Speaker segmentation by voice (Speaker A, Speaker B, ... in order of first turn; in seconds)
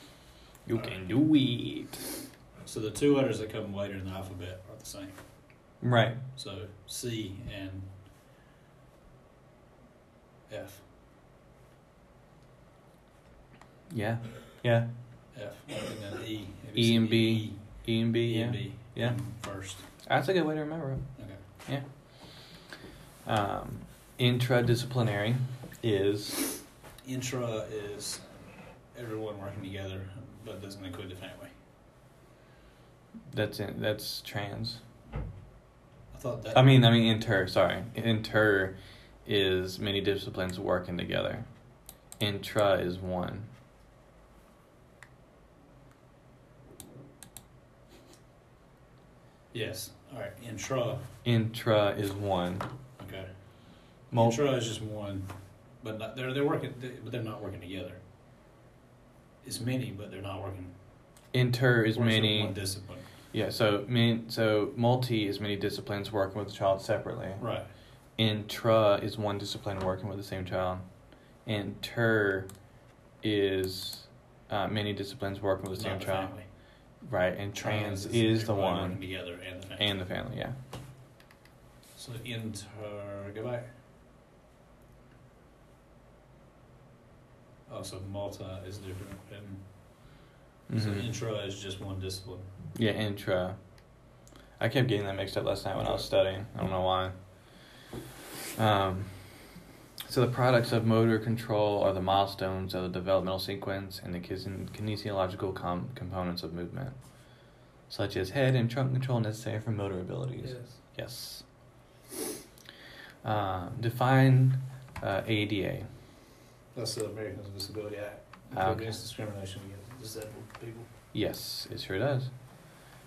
Speaker A: 0.7-2.1, 5.8-6.2, 13.9-14.9, 16.8-19.2, 20.1-22.4, 23.2-26.6, 33.3-34.8, 36.5-41.5, 42.2-43.5, 51.2-52.7, 54.1-54.4, 61.3-62.6, 63.3-67.4, 68.2-70.9, 71.5-72.5, 73.2-76.3, 77.0-79.0, 79.8-80.6, 90.7-91.1, 92.8-93.6, 94.6-97.2, 98.6-99.2, 100.1-107.0, 107.9-111.5, 113.2-115.9, 118.5-119.0, 121.1-122.3
Speaker B: 2.6-5.2, 6.4-7.9, 10.5-10.8, 15.3-19.8, 27.0-28.2, 28.9-31.5, 36.1-36.8, 49.5-51.0, 53.0-58.0, 59.4-60.7, 61.9-63.0, 67.4-67.7, 75.8-76.5, 77.6-80.0, 82.0-83.7, 87.7-89.6, 90.7-92.5, 110.4-110.8, 116.7-120.9